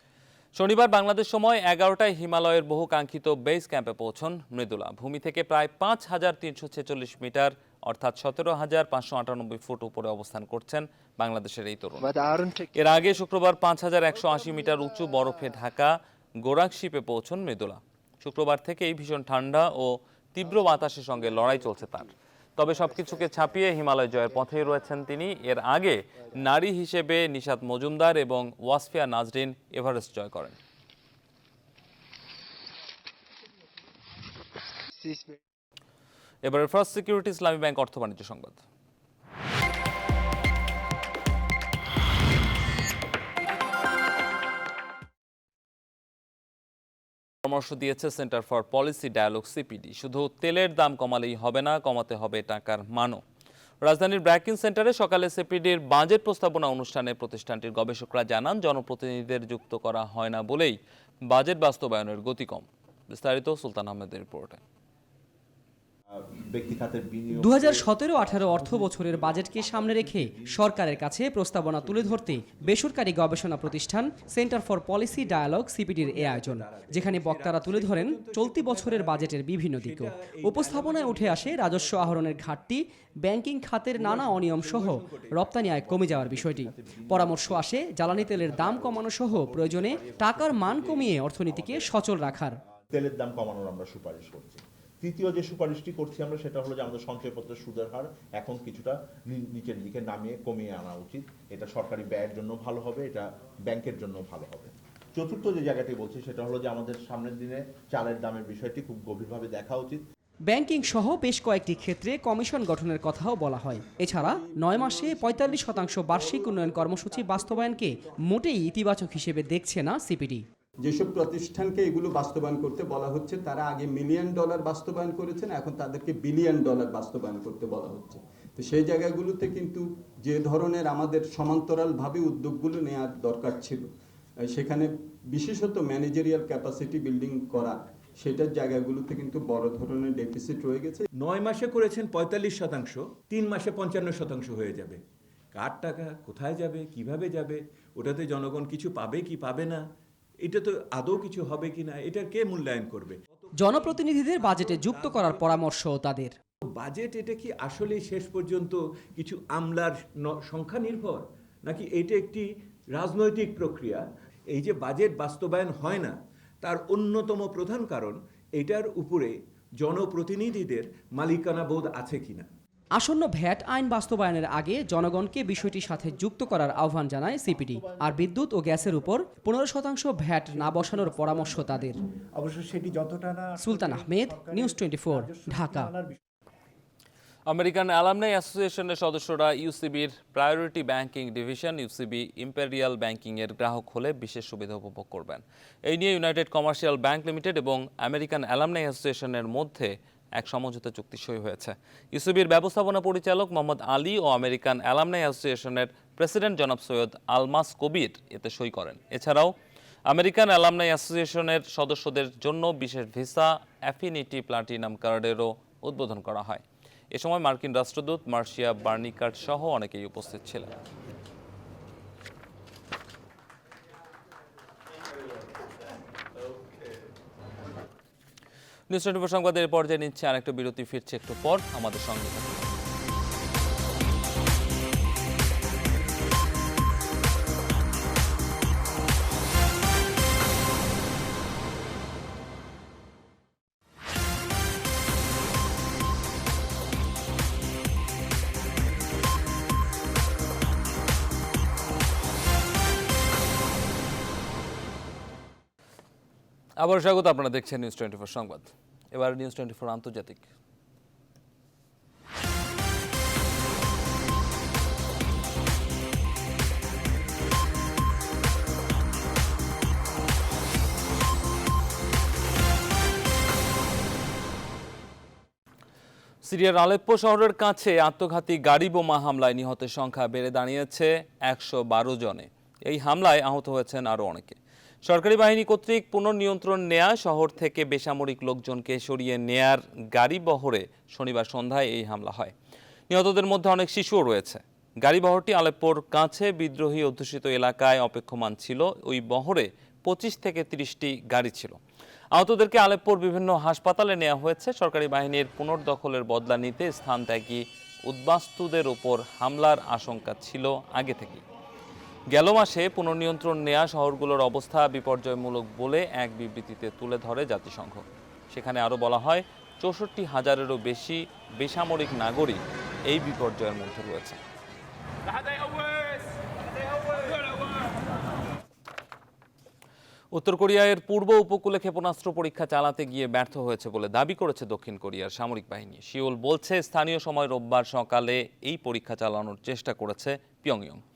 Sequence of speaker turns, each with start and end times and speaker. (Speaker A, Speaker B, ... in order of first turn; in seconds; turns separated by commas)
Speaker A: 0.5-12.2, Speaker A: 12.7-30.6, Speaker A: 36.4-38.6, Speaker A: 47.4-53.2, Speaker A: 53.8-60.8, Speaker A: 61.3-64.6, Speaker B: 66.1-71.1, Speaker C: 67.4-92.6, Speaker D: 71.8-72.8, Speaker B: 71.9-72.3, Speaker D: 75.9-82.5, Speaker D: 83.9-86.3, Speaker B: 85.7-92.0, Speaker B: 92.9-110.0, Speaker C: 110.5-120.4, Speaker E: 113.9-118.1, Speaker E: 120.8-133.9, Speaker E: 134.4-141.0, Speaker D: 141.2-145.0, Speaker D: 145.5-149.8, Speaker D: 150.4-155.6, Speaker C: 153.5-156.3, Speaker D: 156.7-172.5, Speaker C: 172.9-182.0, Speaker C: 183.5-186.0, Speaker A: 187.5-209.5, Speaker A: 210.1-220.7, Speaker A: 228.9-232.7, Speaker A: 256.8-260.4, Speaker A: 276.4-292.5, Speaker A: 293.1-301.8, Speaker A: 302.3-311.4, Speaker A: 312.3-324.4, Speaker A: 330.3-341.0